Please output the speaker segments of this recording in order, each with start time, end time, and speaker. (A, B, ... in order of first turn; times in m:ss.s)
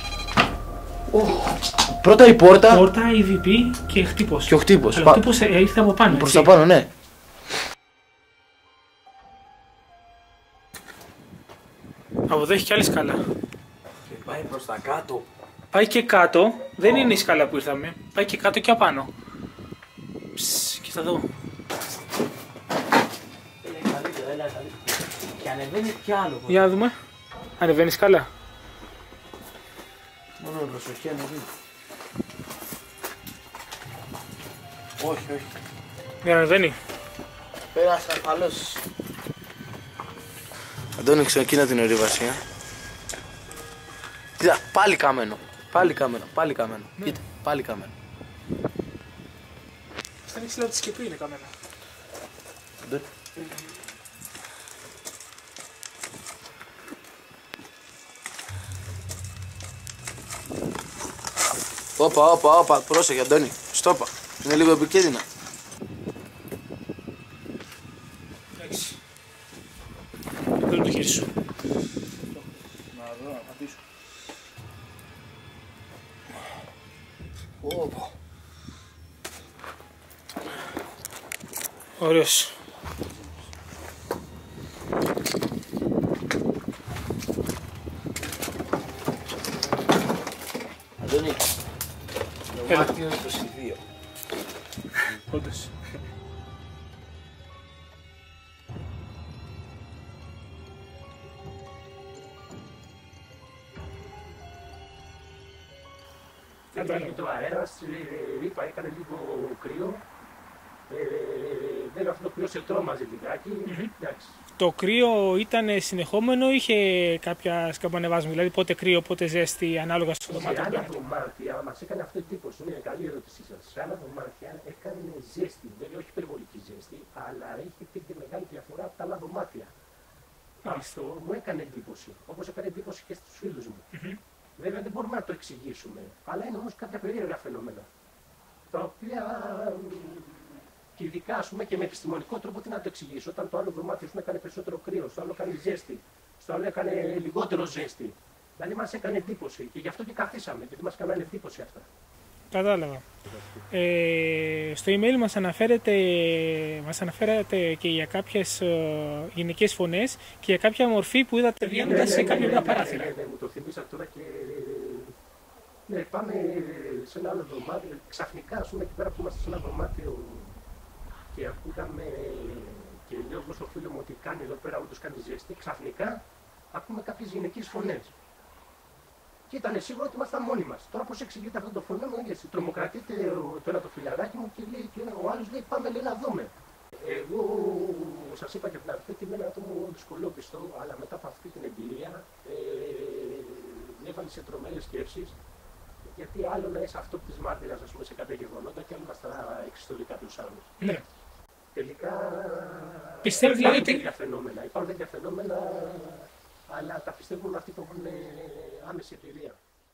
0:01.1-0:02.8 A
0:02.7-0:06.5 B
0:04.5-0:05.2 A
0:06.0-0:06.9 A
0:12.3-0:13.2 B
0:14.0-0:15.3 A
0:15.7-0:19.1 B
0:20.3-0:21.3 B
0:23.6-0:26.7 A
0:26.5-0:26.9 B
0:27.6-0:28.3 B
0:30.4-0:31.5 A
0:35.0-0:35.5 A
0:36.2-0:36.8 B
0:37.7-0:38.8 A
0:41.0-0:42.4 A
0:44.4-0:47.9 A
0:50.3-0:51.5 B
0:52.8-0:53.1 A
1:02.0-1:05.2 A
1:08.6-1:09.0 B
1:10.6-1:11.3 B
1:12.3-1:13.8 A
1:17.6-1:18.1 A
1:22.0-1:22.5 B
1:31.0-1:31.4 A
1:32.5-1:33.8 A
1:32.7-1:32.9 B
1:35.1-1:35.7 B
1:46.7-1:47.2 B
1:46.7-1:50.0 C
1:50.9-1:54.4 C
1:53.6-1:53.9 B
1:54.6-2:00.9 B
2:00.3-2:09.7 C
2:10.6-2:13.9 C
2:13.9-2:14.2 B
2:14.6-2:17.9 C
2:18.7-2:31.9 C
2:32.5-2:33.0 B
2:33.7-2:43.1 B
2:41.8-2:45.1 C
2:45.9-2:50.6 C
2:51.3-2:58.1 C
2:59.5-3:15.4 C
3:16.0-3:20.7 C
3:21.7-3:29.6 C
3:23.2-3:24.0 B